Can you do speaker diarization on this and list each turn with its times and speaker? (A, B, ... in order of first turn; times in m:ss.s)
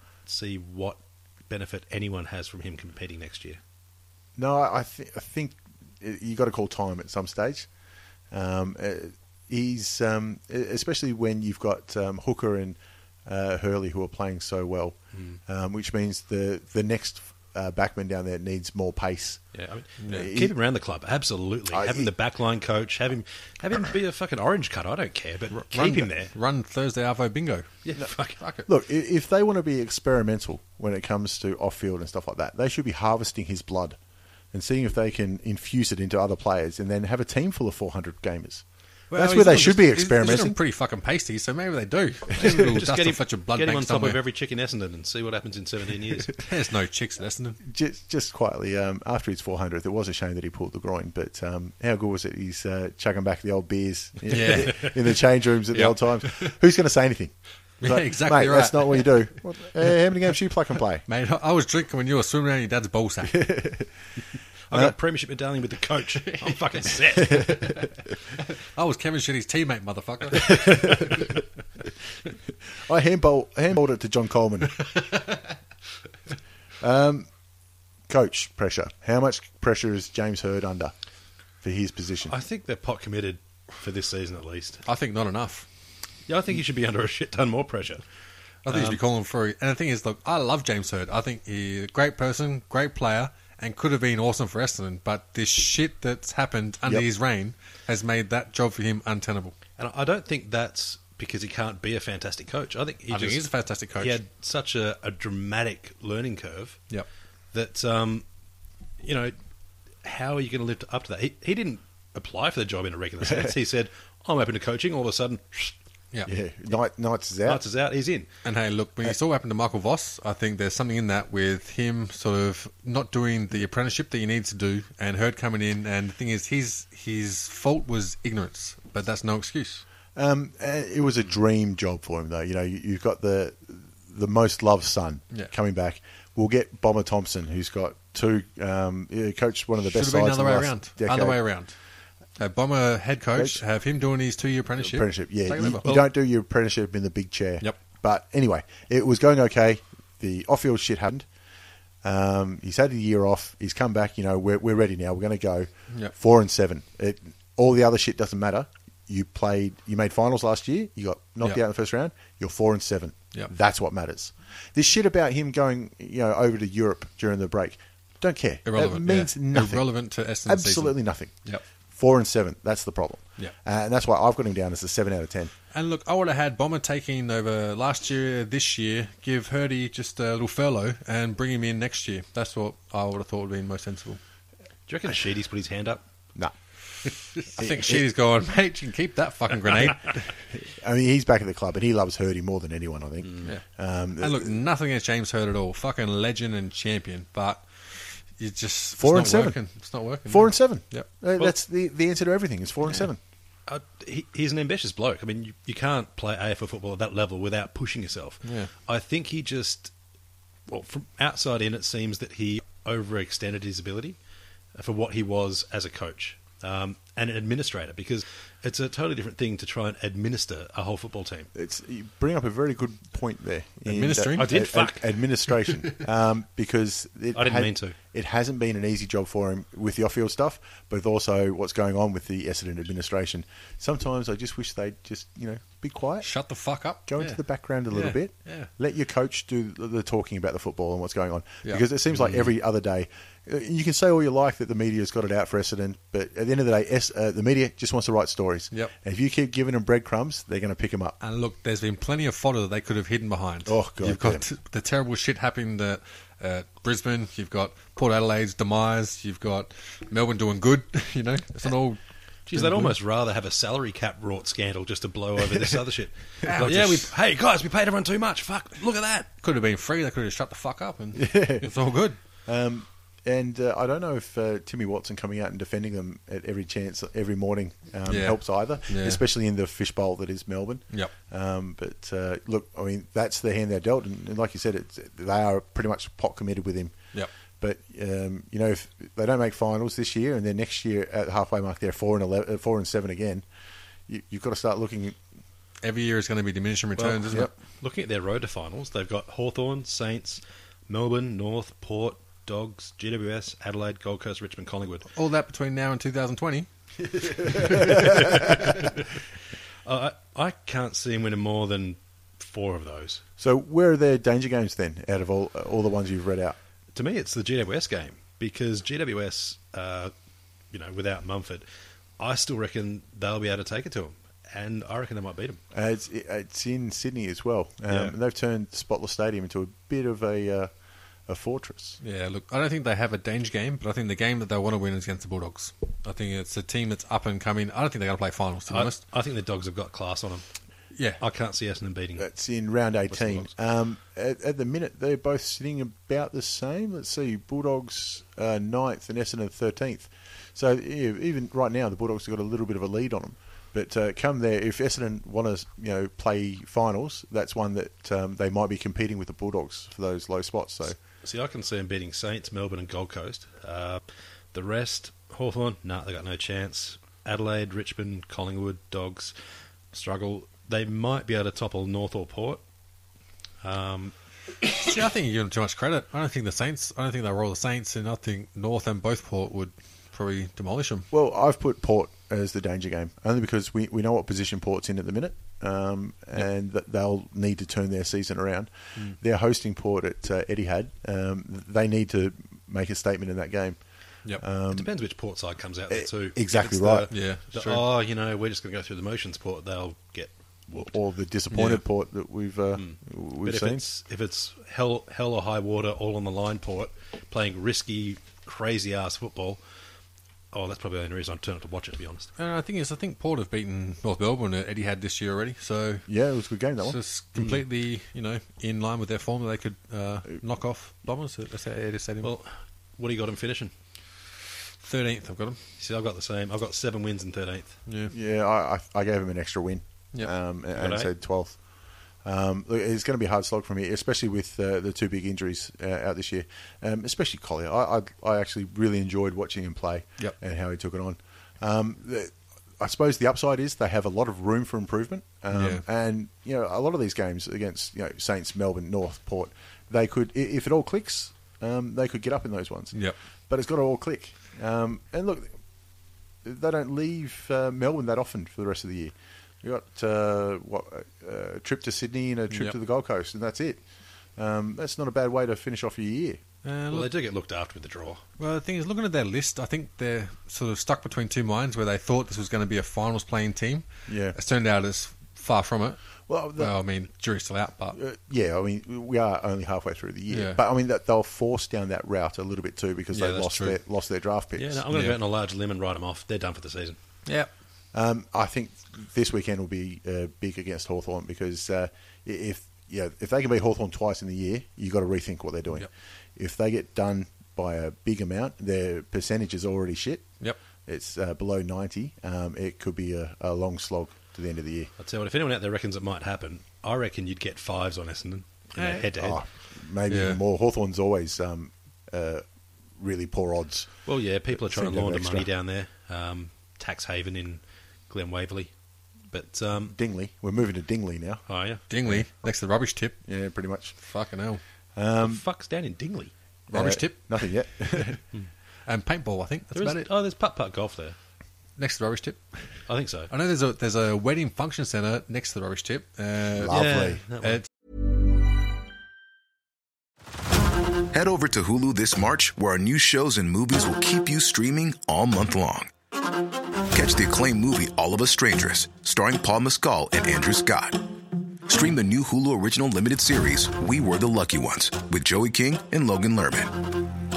0:00.3-0:03.6 A
0:04.4-0:07.7 B
0:08.3-0:19.5 B
0:15.1-0:15.4 A
0:19.5-0:26.3 A
0:20.0-0:20.3 C
0:20.1-0:20.6 B
0:21.7-0:22.1 B
0:25.6-0:27.8 C
0:27.8-0:28.4 A
0:28.4-0:28.6 C
0:28.7-0:34.0 B
0:34.5-0:40.6 B
0:39.1-0:44.2 C
0:42.4-0:46.4 A
0:46.4-0:47.6 C
0:47.6-1:01.0 B
0:54.3-0:55.0 C
0:55.7-0:56.6 C
0:57.8-0:59.3 C
1:01.1-1:03.5 C
1:03.2-1:03.9 B
1:04.7-1:07.8 A
1:07.5-1:07.9 C
1:08.6-1:11.3 C
1:10.6-1:11.2 B
1:12.8-1:14.8 B
1:14.8-1:15.4 C
1:16.8-1:17.3 B
1:18.1-1:20.9 B
1:21.6-1:22.4 B
1:22.3-1:24.8 A
1:24.9-1:25.7 C
1:26.3-1:28.0 A
1:28.7-1:39.6 C
1:28.7-1:29.0 A
1:39.8-1:46.9 A
1:43.1-1:44.2 C
1:47.5-1:48.2 A
1:49.0-1:49.4 A
1:50.0-1:55.8 A
1:53.2-1:53.6 B
1:56.3-1:57.6 B
1:57.4-1:58.3 A
1:58.4-2:09.8 C
2:10.2-2:21.4 B
2:19.8-2:21.7 C
2:22.4-2:26.1 C
2:23.4-2:23.6 B
2:24.8-2:31.3 B
2:32.0-2:51.4 B
2:48.7-2:51.6 C
2:51.9-2:55.5 B
2:55.7-3:04.2 C
3:04.9-3:06.0 A
3:07.4-3:10.3 C
3:07.6-3:08.0 B
3:10.5-3:14.6 B
3:14.2-3:21.1 C
3:19.0-3:19.6 B
3:20.3-3:23.2 B
3:23.7-3:29.9 A
3:28.4-3:28.7 C
3:30.7-3:34.2 A
3:34.7-3:41.5 A
3:41.5-3:56.3 B
3:43.9-3:44.6 C
3:44.4-3:45.2 A
3:47.4-3:48.0 A
3:56.2-3:58.7 C
3:57.1-4:11.2 B
4:01.6-4:02.4 C
4:11.2-4:23.0 C
4:13.7-4:14.4 B
4:22.5-4:29.3 A
4:26.4-4:27.1 C
4:29.4-4:32.2 C
4:31.2-4:31.9 B
4:32.5-4:47.0 B
4:38.1-4:39.2 C
4:47.6-4:53.4 B
4:54.1-4:55.2 B
4:55.8-4:57.5 C
4:57.0-5:05.1 A
5:05.1-5:06.7 C
5:07.4-5:08.0 C
5:07.5-5:08.3 B
5:07.7-5:09.0 A
5:09.8-5:13.2 A
5:13.4-5:16.6 B
5:17.0-5:20.1 A
5:20.7-5:21.6 A
5:22.2-5:25.6 A
5:25.7-5:30.7 B
5:27.9-5:28.2 A
5:31.3-5:32.0 B
5:32.0-5:39.0 C
5:38.7-5:40.4 A
5:41.0-5:41.2 C
5:41.2-5:42.3 A
5:42.2-6:01.0 B
5:43.1-5:43.5 A
6:01.2-6:04.0 A
6:04.5-6:09.3 A
6:09.9-6:12.6 A
6:13.6-6:14.1 A
6:14.7-6:21.1 C
6:21.1-6:33.8 B
6:34.4-6:34.9 B
6:34.7-6:41.0 A
6:35.9-6:37.1 B
6:37.1-6:37.8 C
6:40.8-6:43.8 B
6:41.5-6:41.8 C
6:42.8-6:49.6 A
6:50.5-6:52.3 A
6:52.4-6:56.1 C
6:56.1-6:57.0 B
6:56.8-7:02.3 C
7:02.2-7:03.7 A
7:04.8-7:05.6 C
7:05.8-7:07.8 A
7:07.9-7:08.1 C
7:08.1-7:11.7 B
7:10.7-7:11.1 A
7:12.2-7:33.0 B
7:25.5-7:25.8 C
7:33.5-7:35.6 B
7:36.4-7:43.8 B
7:42.5-7:42.8 C
7:44.4-7:46.4 B
7:46.6-7:47.1 C
7:46.9-7:48.2 A
7:48.4-7:56.0 C
7:54.1-7:54.4 B
7:56.3-7:56.8 B
7:56.6-7:58.0 C
7:57.9-8:04.9 B
8:00.3-8:00.6 C
8:03.1-8:03.8 C
8:04.6-8:07.0 A
8:04.9-8:05.2 C
8:07.9-8:20.3 B
8:20.9-8:24.9 B
8:25.0-8:29.4 A
8:28.8-8:29.0 C
8:29.0-8:34.0 B
8:30.1-8:30.4 C
8:34.1-8:38.7 A
8:34.5-8:35.5 B
8:39.3-8:40.0 A
8:39.9-8:41.4 B
8:41.5-8:41.8 A
8:41.9-8:43.2 C
8:43.2-8:44.0 B
8:44.0-8:44.6 C
8:45.0-8:45.4 B
8:45.2-8:46.3 A
8:46.7-8:48.2 B
8:46.7-8:47.5 C
8:48.9-8:50.1 C
8:49.7-8:51.2 A
8:51.8-8:56.8 C
8:52.9-8:53.3 A
8:56.6-8:57.2 B
8:56.7-8:57.6 A
8:57.4-8:57.6 C
9:01.1-9:05.9 D
9:06.9-9:11.0 D
9:11.7-9:16.9 D